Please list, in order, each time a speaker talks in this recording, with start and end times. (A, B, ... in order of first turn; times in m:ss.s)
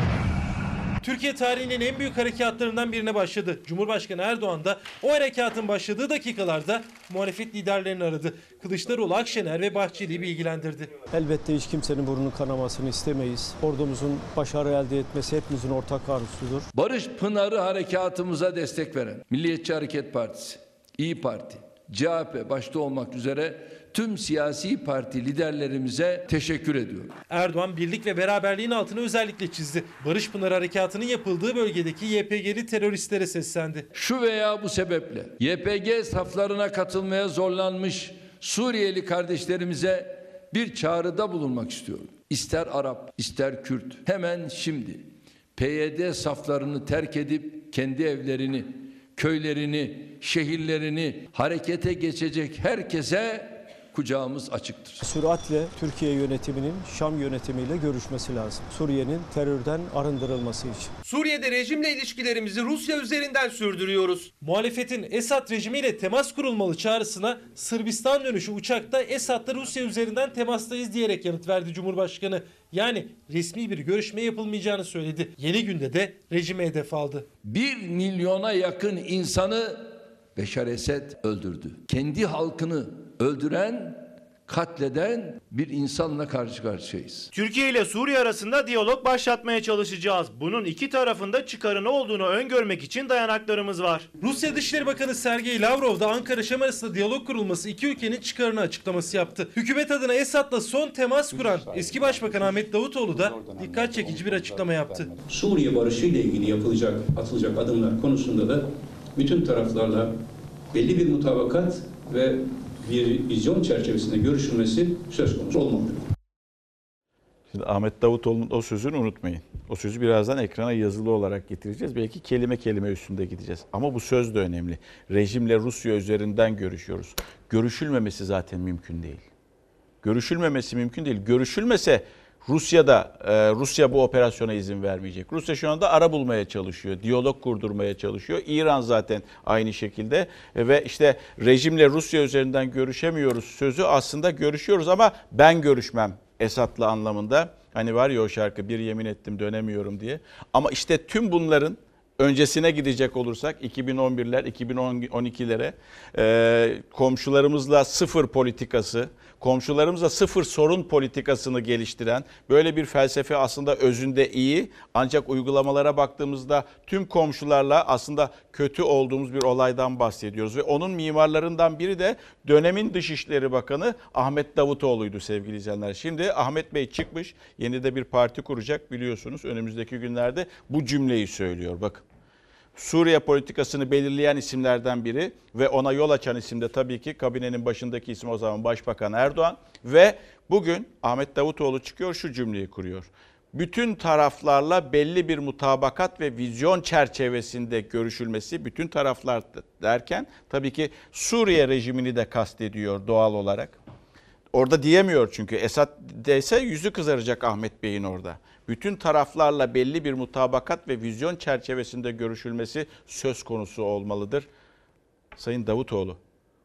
0:01.0-0:10.9 A
0:11.1-0:16.7 B
0:16.7-0:27.1 C
0:27.3-0:33.9 A
0:33.9-0:55.0 C
0:55.0-1:00.9 B
1:01.0-1:04.3 D
1:04.4-1:17.3 A
1:17.4-1:27.3 C
1:27.3-1:34.1 E
1:34.2-1:45.1 A
1:45.3-1:50.1 F
1:50.7-1:56.1 F
1:57.5-2:09.2 G
2:10.0-3:02.0 G
3:02.8-3:23.8 G
3:24.5-3:34.5 G
3:35.4-3:36.2 G